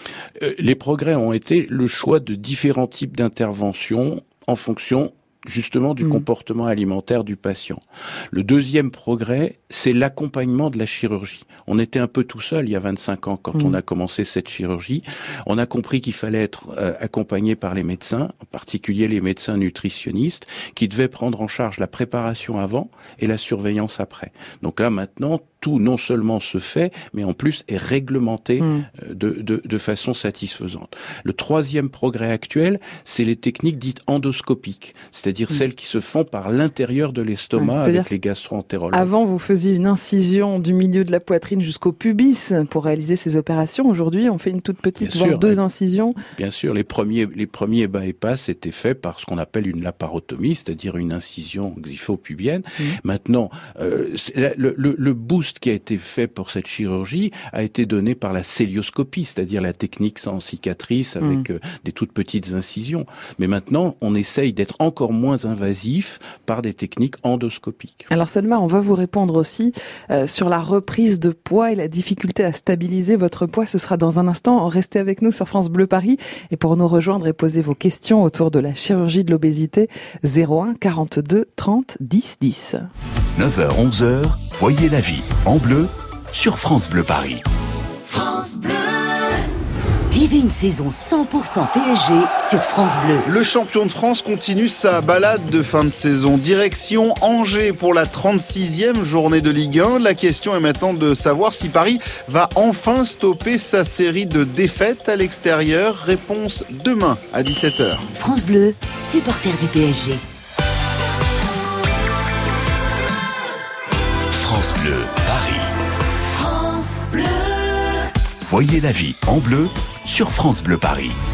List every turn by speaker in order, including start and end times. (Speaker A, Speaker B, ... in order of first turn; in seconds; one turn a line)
Speaker A: 0.4-39.1
Speaker B: 28.6-28.9
Speaker B: 37.6-38.1
Speaker B: 38.9-46.2
Speaker A: 45.0-45.6
Speaker A: 46.4-68.1
Speaker B: 68.1-82.9
Speaker C: 83.4-87.5
Speaker D: 88.0-89.4
Speaker D: 90.1-93.3
Speaker E: 93.2-108.1
Speaker D: 108.1-110.2
Speaker C: 114.3-115.7
Speaker D: 116.3-118.0
Speaker C: 118.4-121.2